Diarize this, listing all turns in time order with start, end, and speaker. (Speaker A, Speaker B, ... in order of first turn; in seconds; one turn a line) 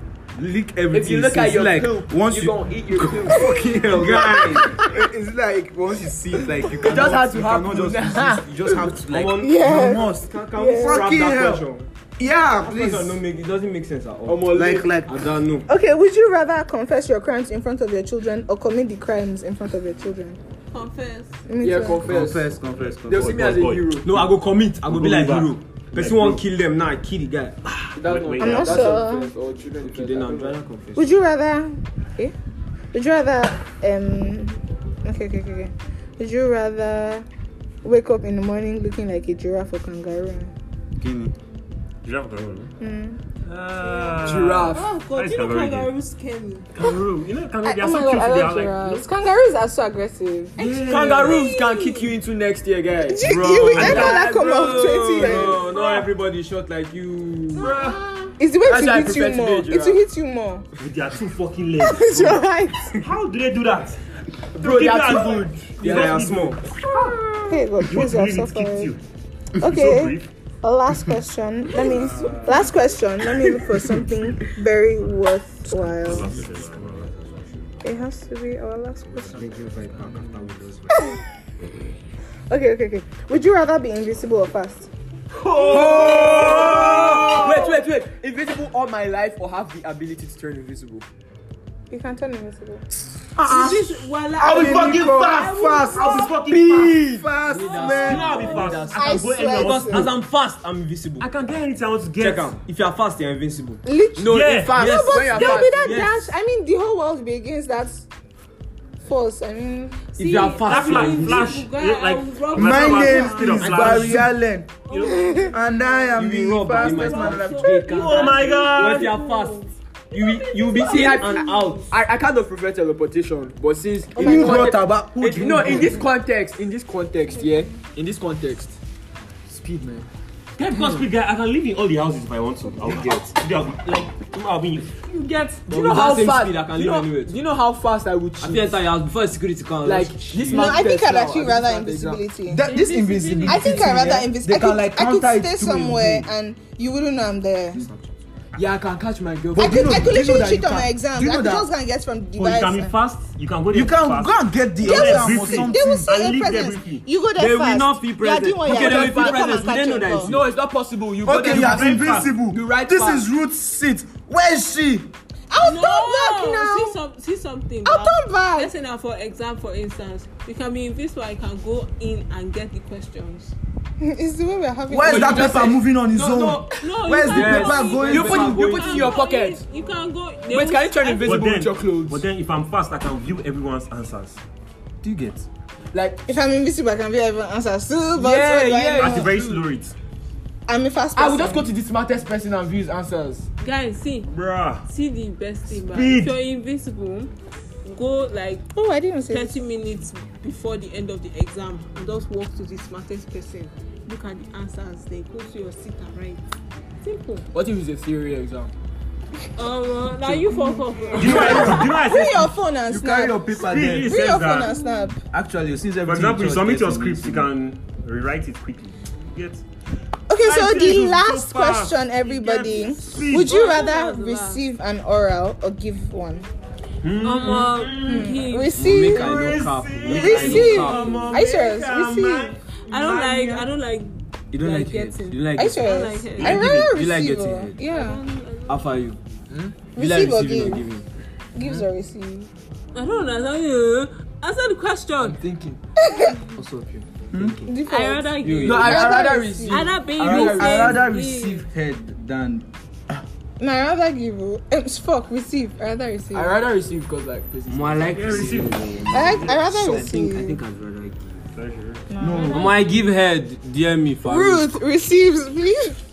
Speaker A: 0.3-11.6
Speaker B: 0.8-1.9
Speaker C: 0.9-4.8
Speaker B: 4.0-4.5
Speaker D: 4.2-5.0
Speaker C: 6.8-8.5
Speaker B: 9.1-11.9
Speaker D: 9.3-11.1
Speaker A: 12.2-13.2
Speaker B: 12.6-15.7
Speaker C: 14.3-14.9
Speaker A: 14.5-15.3
Speaker D: 15.7-20.4
Speaker E: 20.7-21.4
Speaker D: 21.5-22.1
Speaker C: 21.6-22.5
Speaker A: 22.0-23.5
Speaker F: 22.7-24.0
Speaker C: 23.1-24.1
Speaker B: 24.0-27.6
Speaker F: 24.9-26.4
Speaker F: 27.7-29.0
Speaker C: 27.9-30.6
Speaker D: 28.4-29.3
Speaker B: 29.8-31.1
Speaker D: 30.9-32.3
Speaker D: 32.9-37.2
Speaker D: 37.8-40.5
Speaker A: 41.0-41.3
Speaker F: 42.0-42.7
Speaker D: 42.8-43.2
Speaker F: 43.4-45.9
Speaker E: 43.8-46.7
Speaker C: 44.2-44.9
Speaker F: 46.7-49.1
Speaker D: 47.6-50.8
Speaker F: 50.6-51.5
Speaker C: 50.8-55.6
Speaker E: 51.0-52.1
Speaker D: 53.0-55.7
Speaker B: 53.7-57.7
Speaker F: 53.8-54.3
Speaker E: 55.6-56.1
Speaker E: 57.5-58.3
Speaker F: 57.6-58.0
Speaker D: 58.4-60.6
Speaker C: 58.5-60.0
Speaker F: 60.8-64.0
Speaker D: 61.8-63.0
Speaker F: 64.5-66.6
Speaker C: 64.6-66.3
Speaker B: 65.7-66.6
Speaker D: 67.5-68.9
Speaker F: 67.8-69.0
Speaker F: 69.6-70.3
Speaker D: 69.6-76.3
Speaker F: 71.7-72.7
Speaker F: 73.2-73.7
Speaker F: 76.0-77.2
Speaker B: 76.1-77.7
Speaker D: 77.8-79.5
Speaker B: 79.2-81.0
Speaker A: 79.3-80.6
Speaker D: 80.9-81.2
Speaker D: 82.5-84.9
Speaker A: 85.5-87.6
Speaker E: 85.6-87.3
Speaker D: 86.6-87.6
Speaker C: 87.3-91.0
Speaker D: 91.9-92.8
Speaker A: 93.3-98.4
Speaker E: 93.4-96.4
Speaker F: 94.5-97.0
Speaker C: 96.4-97.4
Speaker E: 97.4-99.1
Speaker B: 97.5-101.3
Speaker F: 97.9-100.1
Speaker D: 98.9-100.1
Speaker F: 101.2-102.5
Speaker B: 102.2-103.8
Speaker D: 103.8-108.0
Speaker C: 104.2-106.1
Speaker F: 104.2-104.9
Speaker B: 104.8-106.3
Speaker D: 109.0-110.0
Speaker E: 110.1-114.0
Speaker B: 110.2-111.6
Speaker F: 110.6-114.3
Speaker A: 112.5-114.8
Speaker B: 113.7-114.3
Speaker E: 114.8-116.1
Speaker D: 114.9-115.5
Speaker A: 115.5-117.4
Speaker B: 116.1-121.9
Speaker E: 116.7-121.9
Speaker D: 116.9-117.4
Speaker F: 117.9-119.2
Speaker C: 120.8-128.8
Speaker A: 124.2-126.0
Speaker D: 124.2-124.7
Speaker C: 129.5-130.1
Speaker F: 130.6-135.0
Speaker C: 130.7-130.9
Speaker B: 132.9-133.2
Speaker C: 135.1-138.8
Speaker B: 135.7-137.4
Speaker B: 138.4-140.9
Speaker C: 139.8-142.2
Speaker D: 140.5-142.7
Speaker A: 142.5-146.3
Speaker E: 142.6-144.0
Speaker D: 143.4-147.8
Speaker C: 148.6-150.0
Speaker A: 149.5-151.7
Speaker D: 149.6-152.9
Speaker F: 152.4-157.1
Speaker A: 153.7-156.1
Speaker D: 154.8-160.4
Speaker B: 157.4-160.5
Speaker C: 158.6-163.2
Speaker A: 161.2-165.1
Speaker F: 161.3-162.3
Speaker D: 165.5-167.0
Speaker E: 165.6-173.5
Speaker D: 167.8-168.7
Speaker D: 174.0-175.8
Speaker A: 174.9-178.8
Speaker C: 175.0-179.6
Speaker E: 176.8-181.5
Speaker B: 177.3-179.2
Speaker C: 180.5-182.2
Speaker F: 181.2-184.4
Speaker C: 185.9-186.2
Speaker D: 186.3-189.3
Speaker C: 188.1-189.6
Speaker F: 188.9-189.9
Speaker D: 190.7-191.7
Speaker C: 191.1-193.5
Speaker E: 193.6-194.3
Speaker F: 194.3-194.9
Speaker E: 194.9-197.3
Speaker F: 195.7-196.3
Speaker E: 197.8-198.6
Speaker D: 198.8-199.6
Speaker E: 199.3-206.4
Speaker E: 207.0-207.5
Speaker C: 207.5-208.7
Speaker E: 209.6-211.8
Speaker D: 210.2-215.2
Speaker F: 211.1-212.6
Speaker A: 211.2-211.9
Speaker A: 212.9-214.2
Speaker F: 213.5-214.8
Speaker E: 214.6-215.1
Speaker A: 215.3-217.5
Speaker F: 216.0-219.6
Speaker D: 220.3-226.5
Speaker F: 220.3-223.6
Speaker E: 223.3-224.6
Speaker F: 227.0-228.4
Speaker E: 227.2-229.0
Speaker D: 228.0-229.3
Speaker B: 228.8-231.3
Speaker F: 228.9-233.7
Speaker D: 230.1-232.5
Speaker E: 230.3-231.3
Speaker E: 232.8-236.7
Speaker B: 234.5-237.8
Speaker D: 235.6-238.2
Speaker F: 236.3-237.0
Speaker E: 237.8-239.1
Speaker B: 238.7-239.2
Speaker C: 239.5-239.8
Speaker D: 239.9-240.9
Speaker B: 239.9-241.1
Speaker D: 241.5-242.5
Speaker E: 242.9-245.4
Speaker C: 245.2-245.8
Speaker D: 246.0-246.4
Speaker B: 246.5-247.8
Speaker A: 247.3-247.6
Speaker D: 247.7-249.9
Speaker E: 247.8-251.6
Speaker B: 248.4-249.2
Speaker C: 248.6-251.0
Speaker A: 250.2-253.2
Speaker D: 253.6-256.6
Speaker C: 256.3-258.6
Speaker B: 257.7-261.4
Speaker F: 258.1-259.7
Speaker D: 259.1-260.6
Speaker C: 259.7-260.1
Speaker F: 261.5-262.1
Speaker D: 262.1-262.8
Speaker A: 262.2-262.7
Speaker B: 262.5-264.7
Speaker D: 264.2-266.0